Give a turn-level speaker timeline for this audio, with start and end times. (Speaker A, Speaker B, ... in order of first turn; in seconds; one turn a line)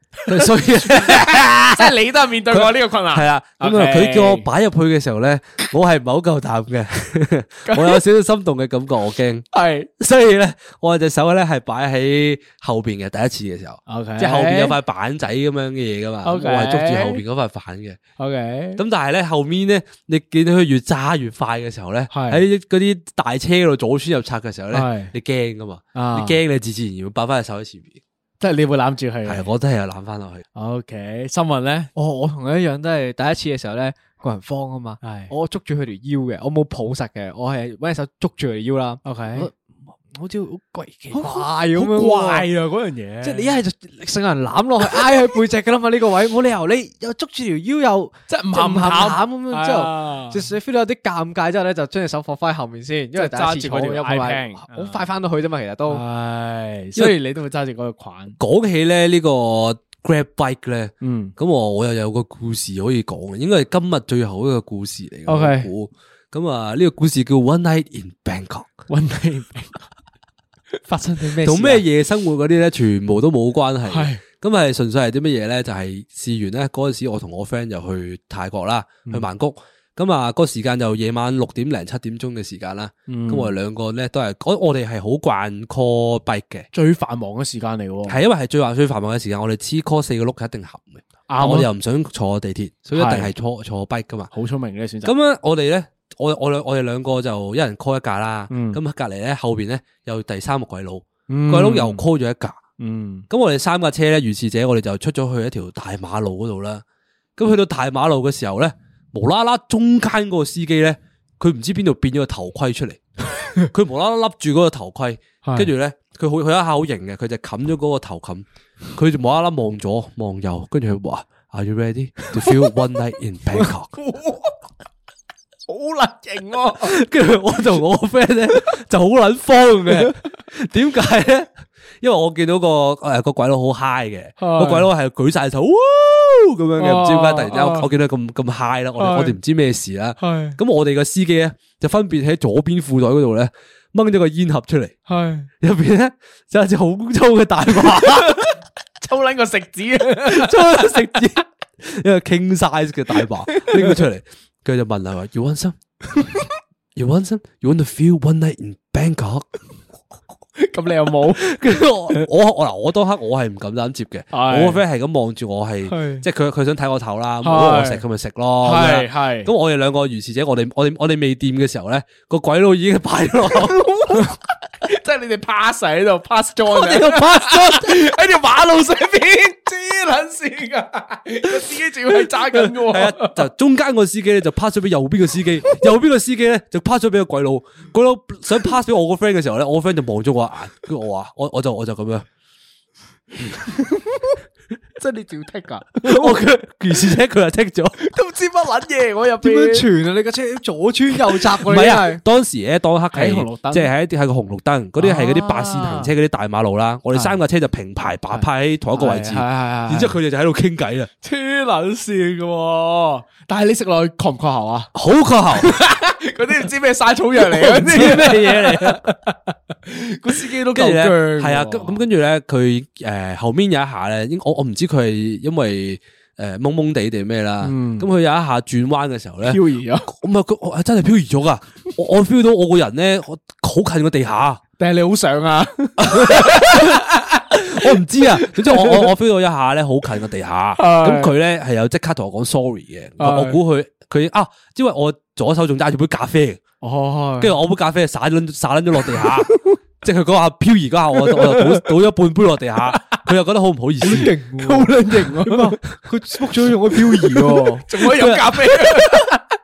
Speaker A: 0.2-4.5
Speaker B: 0.3-1.9
Speaker B: 2.5-9.4
Speaker A: 7.7-8.0
Speaker A: 9.5-9.9
Speaker B: 10.0-18.0
Speaker A: 13.9-14.8
Speaker A: 16.2-17.2
Speaker A: 18.2-18.8
Speaker B: 18.8-28.0
Speaker A: 22.1-22.4
Speaker A: 24.7-25.1
Speaker A: 25.9-26.4
Speaker A: 28.4-29.5
Speaker B: 29.3-30.5
Speaker A: 30.6-31.9
Speaker C: 31.9-42.5
Speaker A: 35.0-35.3
Speaker A: 39.0-39.5
Speaker A: 41.1-43.6
Speaker C: 43.2-56.0
Speaker A: 48.3-50.5
Speaker A: 53.1-55.0
Speaker A: 55.9-58.4
Speaker B: 58.4-68.7
Speaker A: 61.0-61.4
Speaker A: 65.3-65.7
Speaker A: 68.9-69.8
Speaker A: 70.9-71.8
Speaker B: 71.4-86.7
Speaker A: 73.9-74.2
Speaker A: 83.1-83.5
Speaker A: 86.7-88.2
Speaker B: 88.1-94.3
Speaker A: 91.3-91.7
Speaker A: 92.9-93.3
Speaker A: 94.3-95.1
Speaker B: 95.0-102.6
Speaker A: 98.5-98.8
Speaker A: 101.3-102.0
Speaker A: 102.8-103.3
Speaker B: 103.3-106.8
Speaker B: 107.4-113.0
Speaker B: 113.5-123.9
Speaker A: 115.4-115.7
Speaker A: 123.6-124.5
Speaker A: 125.7-127.0
Speaker B: 126.8-145.0
Speaker A: 129.9-130.1
Speaker A: 134.4-134.9
Speaker A: 136.8-137.9
Speaker A: 139.0-139.4
Speaker A: 140.2-140.6
Speaker A: 145.1-145.5
Speaker B: 145.6-148.5
Speaker A: 147.9-151.3
Speaker B: 150.3-155.8
Speaker A: 153.1-154.0
Speaker A: 156.1-156.5
Speaker B: 157.0-159.5
Speaker A: 160.6-161.6
Speaker B: 161.4-174.2
Speaker A: 164.3-164.8
Speaker A: 165.9-166.2
Speaker A: 167.4-168.0
Speaker A: 168.6-169.5
Speaker A: 173.8-183.4
Speaker B: 176.7-177.9
Speaker B: 182.1-192.3
Speaker A: 193.6-194.2
Speaker A: 195.0-196.2
Speaker B: 196.0-198.0
Speaker A: 198.0-199.9
Speaker C: 199.4-202.2
Speaker B: 201.6-211.1
Speaker A: 203.1-203.9
Speaker A: 205.0-206.1
Speaker A: 207.1-207.4
Speaker A: 208.3-210.1
Speaker A: 211.2-214.9
Speaker B: 214.9-215.7
Speaker A: 215.6-222.0
Speaker B: 217.4-219.2
Speaker B: 220.7-234.6
Speaker A: 227.6-228.1
Speaker A: 229.4-230.1
Speaker A: 234.8-239.0
Speaker B: 236.0-237.0
Speaker B: 237.5-246.6
Speaker A: 240.8-241.3
Speaker A: 243.2-243.6
Speaker C: 246.8-247.6
Speaker B: 247.4-254.3
Speaker A: 251.2-251.8
Speaker C: 254.0-257.9
Speaker A: 254.6-255.8
Speaker B: 257.1-257.4
Speaker A: 257.9-259.4
Speaker B: 258.0-259.3